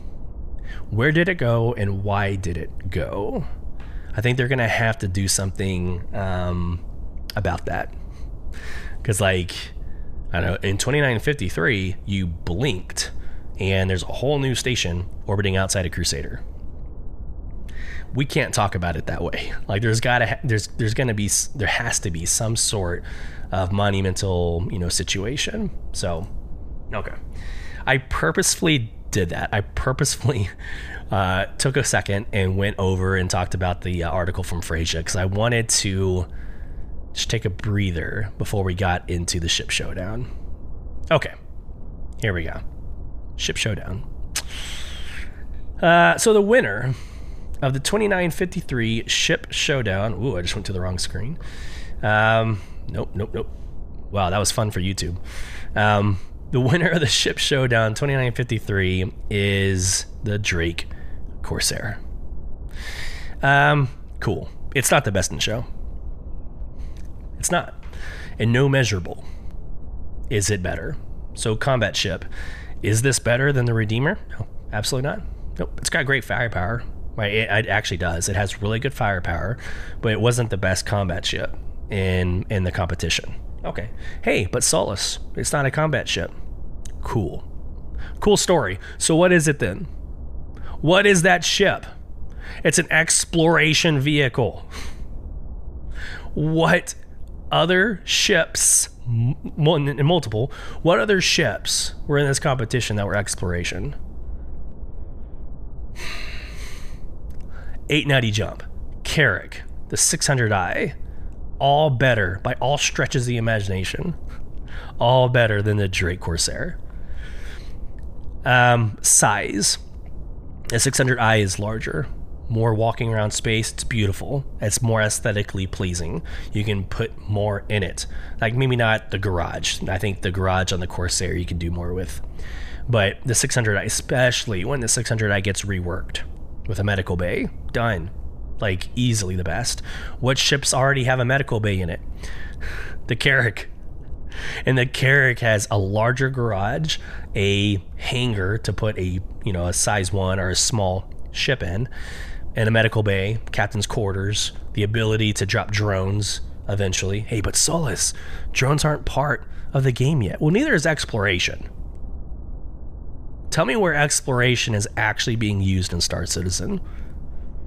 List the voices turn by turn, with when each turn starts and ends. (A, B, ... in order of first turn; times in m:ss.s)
0:00.9-0:03.5 A
0:04.2-0:06.8 A
0:07.4-0:08.0 A
0:09.0-0:09.7 A
0:10.3-0:16.4 A
0:18.1-0:26.3 A
0:26.9-0:27.2 A
0:27.9-0:30.5 A
0:31.1-0:36.3 A
0:37.1-0:40.3 A
0:42.2-0:42.6 A
0:43.4-0:44.0 A
0:45.8-0:47.0 A
0:47.6-0:51.4 A
0:52.0-0:53.5 A
0:54.1-0:55.2 A
0:55.8-1:00.9 A
1:01.4-1:02.0 A
1:03.4-1:05.7 A
1:07.4-1:07.8 A
1:08.4-1:09.2 A
1:10.3-1:12.3 A
1:12.8-1:26.3 A
1:27.0-1:27.4 A
1:28.2-1:29.9 A
1:30.8-1:31.9 A
1:32.6-1:34.7 A
1:36.3-1:37.0 A
1:37.5-1:44.0 A
1:47.9-1:51.0 A
1:51.6-1:54.2 A
1:55.0-1:56.8 A
1:58.4-1:59.8 A
2:00.7-2:12.2 A
2:12.9-2:22.0 A
2:23.1-2:23.7 A
2:24.6-2:31.9 A
2:32.6-2:41.7 A
2:43.5-2:46.8 A